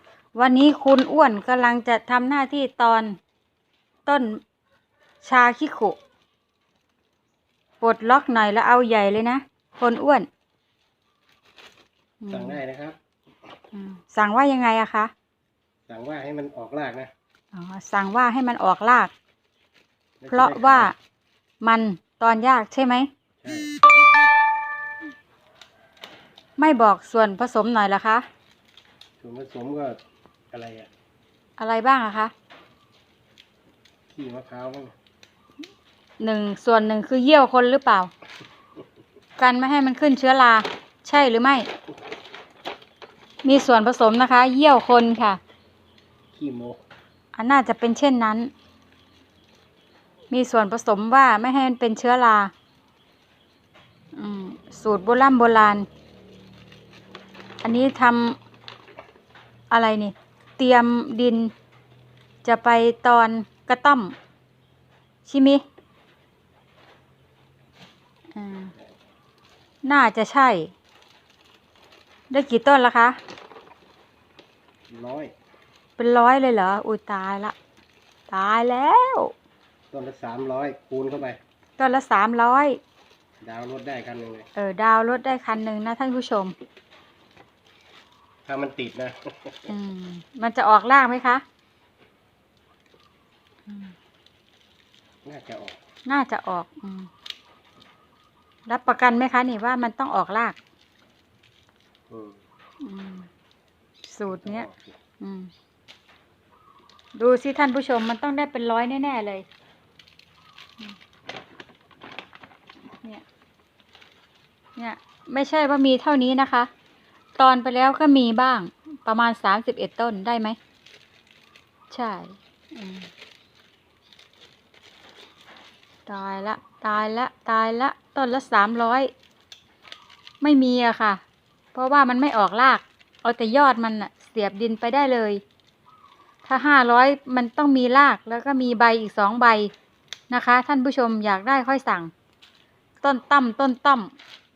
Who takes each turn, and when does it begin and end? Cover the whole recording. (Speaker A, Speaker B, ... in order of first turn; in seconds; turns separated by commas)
Speaker A: 0.3-3.2, Speaker A: 4.1-4.4, Speaker A: 5.2-6.0, Speaker A: 7.8-10.3, Speaker A: 12.2-12.6, Speaker B: 12.3-13.0, Speaker A: 13.7-15.1, Speaker B: 15.9-17.1, Speaker A: 17.5-19.1, Speaker B: 20.2-20.9, Speaker A: 20.3-20.9, Speaker A: 21.6-23.1, Speaker B: 23.4-23.7, Speaker A: 26.6-28.2, Speaker B: 29.2-30.0, Speaker B: 30.5-30.9, Speaker A: 31.6-32.3, Speaker B: 34.1-35.0, Speaker A: 36.2-38.1, Speaker A: 39.4-41.7, Speaker A: 43.4-45.4, Speaker B: 46.3-46.8, Speaker A: 47.4-48.5, Speaker A: 50.3-52.5, Speaker A: 54.1-55.9, Speaker A: 57.6-58.4, Speaker A: 59.7-61.5, Speaker A: 62.4-64.2, Speaker A: 65.2-65.6, Speaker A: 68.3-68.7, Speaker A: 69.8-70.7, Speaker A: 72.3-73.2, Speaker B: 74.9-75.3, Speaker A: 76.0-77.5, Speaker A: 78.3-79.3, Speaker B: 79.9-81.4, Speaker A: 81.8-82.8, Speaker B: 83.4-84.5, Speaker A: 84.6-86.5, Speaker B: 88.5-89.7, Speaker A: 89.7-91.4, Speaker A: 93.7-93.9, Speaker B: 95.2-95.8, Speaker A: 96.1-97.1, Speaker A: 98.7-100.6, Speaker B: 102.1-102.4, Speaker A: 102.8-103.3, Speaker A: 104.1-104.7, Speaker B: 104.3-105.0, Speaker A: 105.2-105.5, Speaker A: 107.2-109.5, Speaker A: 114.8-116.7, Speaker A: 117.4-120.6, Speaker A: 121.9-123.1, Speaker A: 126.1-129.1, Speaker A: 130.4-131.2, Speaker A: 131.7-135.4, Speaker A: 136.4-139.7, Speaker A: 140.3-142.1, Speaker A: 143.0-144.1